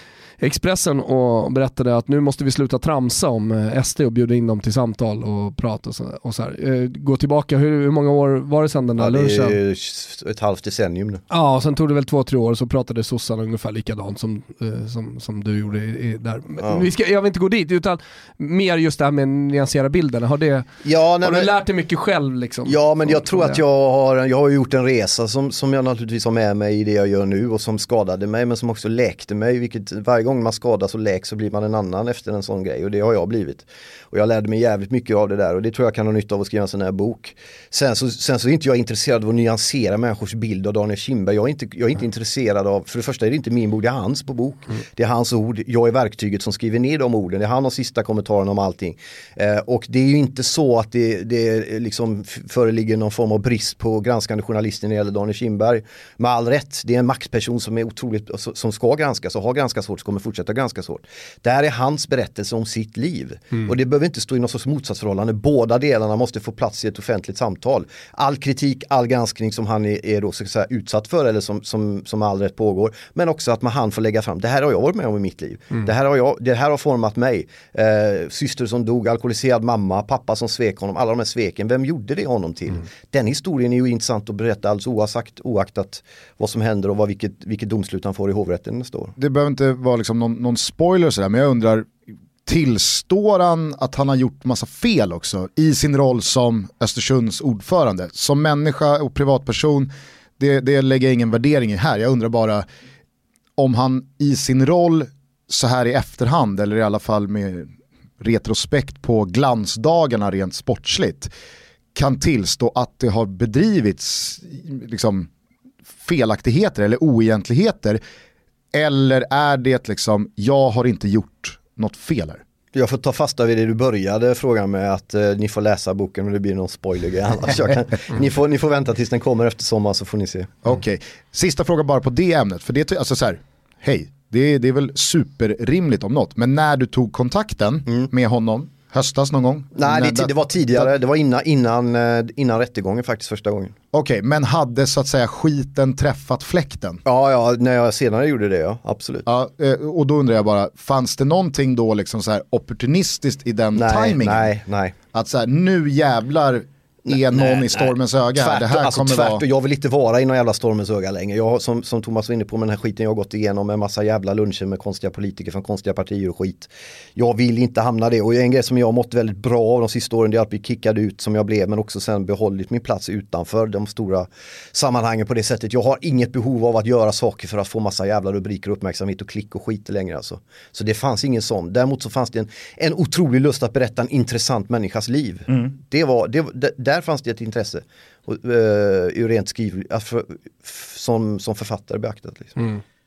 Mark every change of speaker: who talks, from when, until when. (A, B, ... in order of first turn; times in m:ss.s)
0:00.4-0:09.6 A
0:09.0-0:11.2 B
0:11.3-0:20.7 A
0:16.6-0:16.9 B
0:20.8-0:21.5 B
0:21.2-0:23.6 A
0:22.7-1:29.1 B
1:29.2-1:31.9 C
1:32.5-1:42.6 C
1:43.6-1:51.3 C
1:51.9-1:55.3 C
1:56.0-1:58.0 C
1:58.7-2:02.4 C
2:02.7-2:10.5 B
2:10.6-2:20.9 C
2:19.8-2:23.7 B
2:23.9-2:27.0 C
2:27.0-2:29.3 B
2:29.3-2:34.5 C
2:33.7-2:34.9 B
2:35.1-2:39.4 C
2:37.1-3:12.6 B